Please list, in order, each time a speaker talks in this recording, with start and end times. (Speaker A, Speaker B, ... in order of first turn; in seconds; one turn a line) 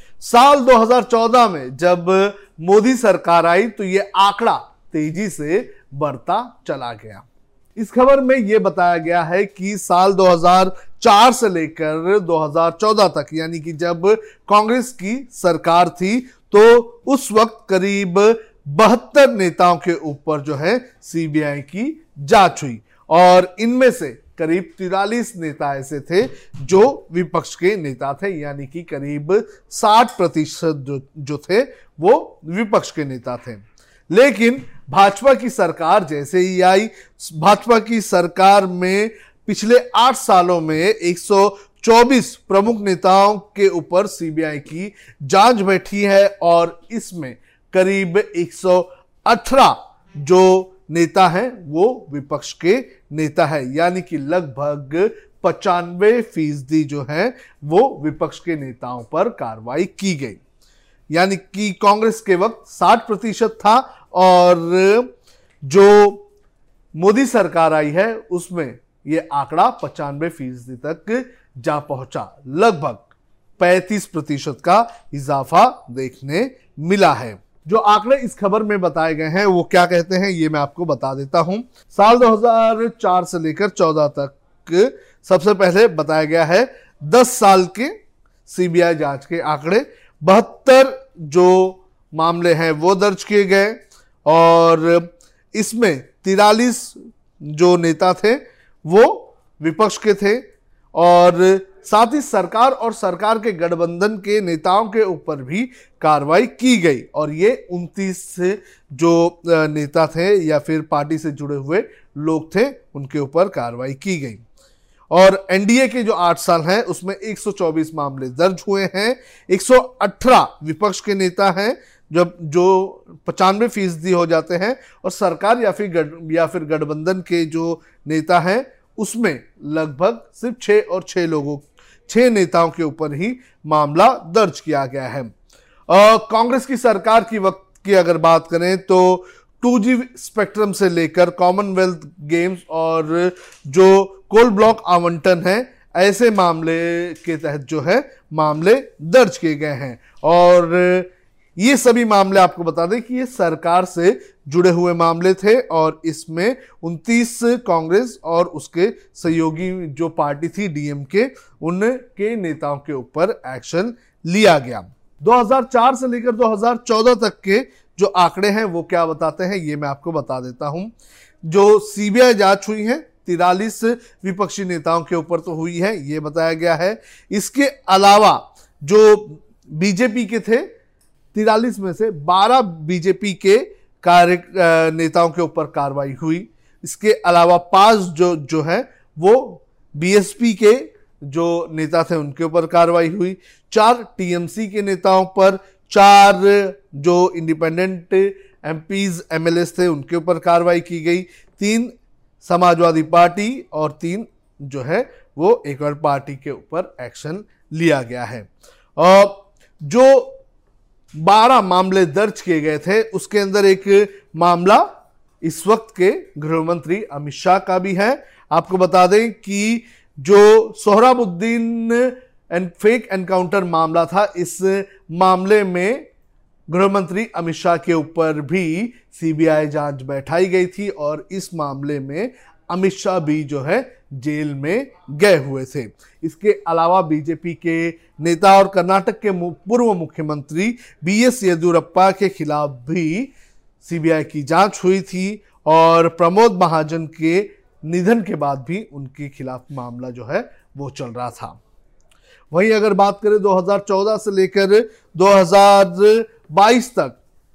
Speaker A: 0.2-60.4
Speaker A: 61.1-65.1
Speaker A: 65.7-66.2
Speaker A: 67.0-88.0
Speaker A: 88.5-114.4
Speaker A: 115.1-135.3
Speaker A: 135.9-180.7
Speaker A: 181.3-210.4
Speaker A: 211.2-214.9
Speaker A: 215.4-226.1
Speaker A: 226.7-251.6
Speaker A: 252.5-257.2